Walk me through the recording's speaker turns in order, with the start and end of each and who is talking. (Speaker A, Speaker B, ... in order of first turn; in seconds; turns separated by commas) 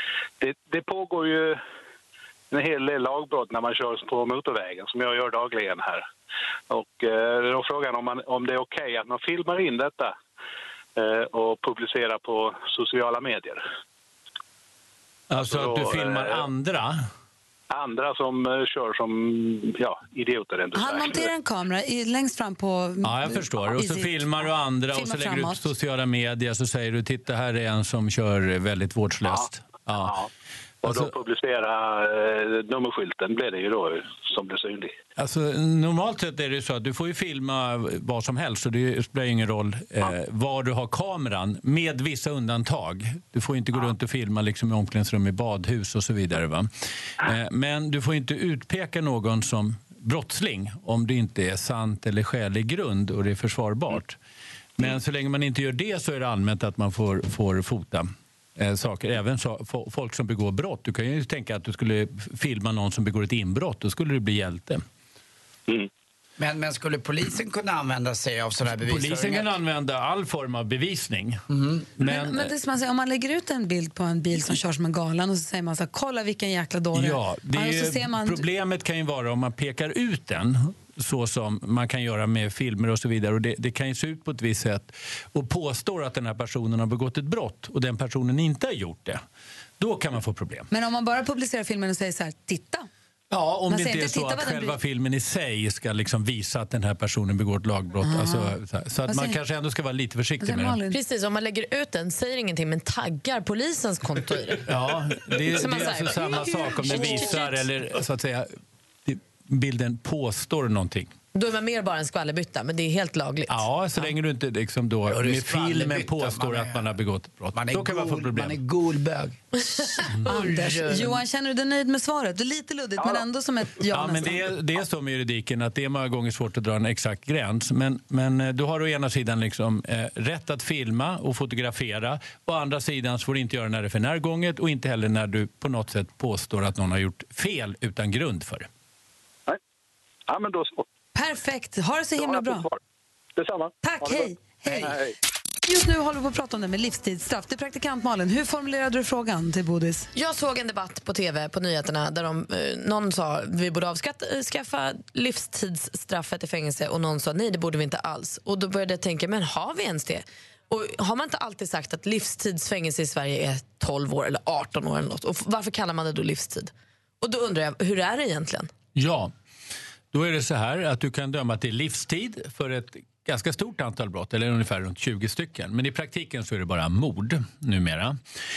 Speaker A: 0.4-1.6, Speaker A: 2.5-6.1, Speaker A: 6.7-10.1, Speaker A: 10.9-13.6, Speaker B: 15.3-17.1, Speaker A: 15.4-16.4, Speaker A: 17.7-21.3, Speaker C: 20.7-25.6, Speaker B: 23.0-30.2, Speaker A: 29.3-30.3, Speaker B: 30.8-31.1, Speaker A: 30.8-35.0, Speaker B: 35.2-46.7, Speaker B: 47.2-54.2, Speaker B: 54.8-64.8, Speaker D: 66.4-69.5, Speaker B: 68.7-71.4, Speaker D: 71.5-71.8, Speaker B: 72.0-72.5, Speaker C: 72.0-78.5, Speaker B: 76.9-89.2, Speaker B: 89.8-90.7, Speaker C: 90.7-92.9, Speaker B: 93.3-100.8, Speaker C: 93.7-94.8, Speaker C: 98.0-98.5, Speaker C: 99.1-99.4, Speaker C: 100.4-101.0, Speaker E: 100.9-104.7, Speaker B: 104.6-108.5, Speaker E: 105.4-107.7, Speaker B: 109.0-111.1, Speaker E: 111.3-114.1, Speaker B: 113.5-118.6, Speaker D: 115.1-116.9, Speaker D: 117.5-119.4, Speaker C: 120.2-124.4, Speaker D: 120.3-121.1, Speaker B: 123.9-138.7, Speaker A: 140.3-140.8, Speaker C: 141.1-142.7, Speaker A: 143.4-143.7, Speaker C: 143.8-144.9, Speaker C: 145.7-150.1, Speaker E: 150.1-168.7, Speaker B: 168.9-169.3, Speaker B: 170.1-178.2